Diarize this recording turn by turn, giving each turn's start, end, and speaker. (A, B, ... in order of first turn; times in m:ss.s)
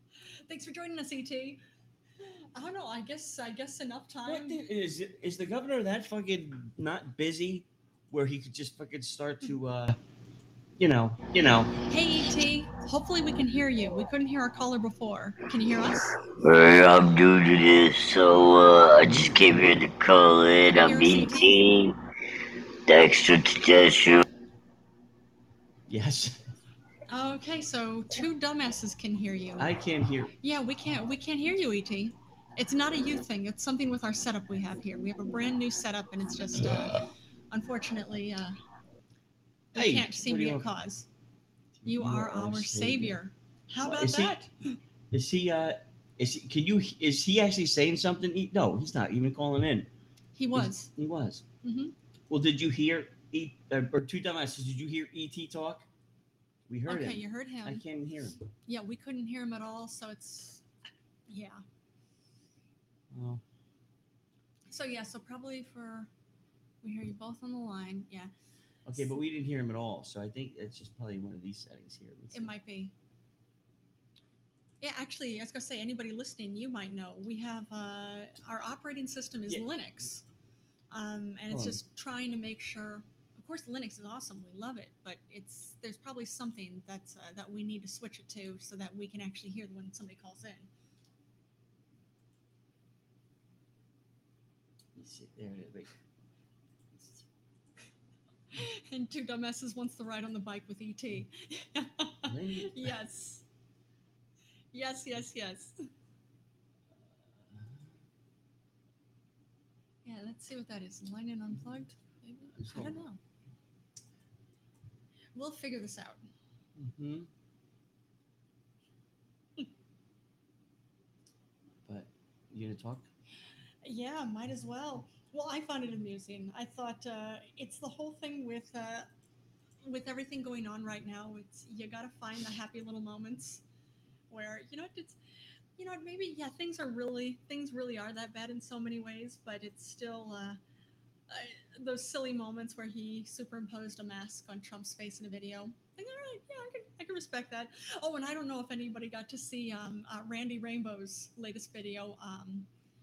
0:00.5-0:01.6 A
0:02.2-0:04.6 A
0:04.2-0:10.0 B
0:10.8-0:11.7 B
0:11.8-0:16.2 A
0:16.4-0:21.9 C
0:20.7-0:21.6 A
0:22.9-0:24.2 C
0:25.9-0:26.4 B
0:27.1-0:29.7 A
0:29.6-0:30.3 B
0:30.4-0:38.6 A
0:39.7-0:41.1 A
0:39.7-0:40.6 B
0:41.8-0:43.2 B
0:41.8-0:44.8 A
0:43.8-0:44.4 B
0:45.1-0:49.9 B
0:50.3-0:50.9 A
0:50.5-0:51.4 B
0:51.6-0:51.9 A
0:52.3-0:55.8 B
0:56.7-0:58.4 B
0:56.9-0:57.8 A
0:58.7-1:00.6 A
1:01.3-1:01.6 A
1:03.1-1:03.4 B
1:04.7-1:06.1 A
1:06.8-1:08.3 A
1:08.8-1:12.5 B
1:12.3-1:12.9 A
1:14.8-1:20.2 A
1:20.9-1:30.7 A
1:21.5-1:21.8 B
1:34.9-1:35.9 B
1:36.9-1:37.2 B
1:38.5-1:43.4 A
1:42.2-1:42.9 B
1:44.7-1:45.8 A
1:47.1-1:47.8 B
1:50.0-1:53.2 A
1:52.6-1:53.0 B
1:55.3-1:56.2 A
1:56.8-1:57.3 B
2:01.9-2:03.1 B
2:03.8-2:09.1 A
2:09.8-2:13.6 A
2:14.3-2:15.2 A
2:15.8-2:20.6 A
2:21.3-2:32.7 A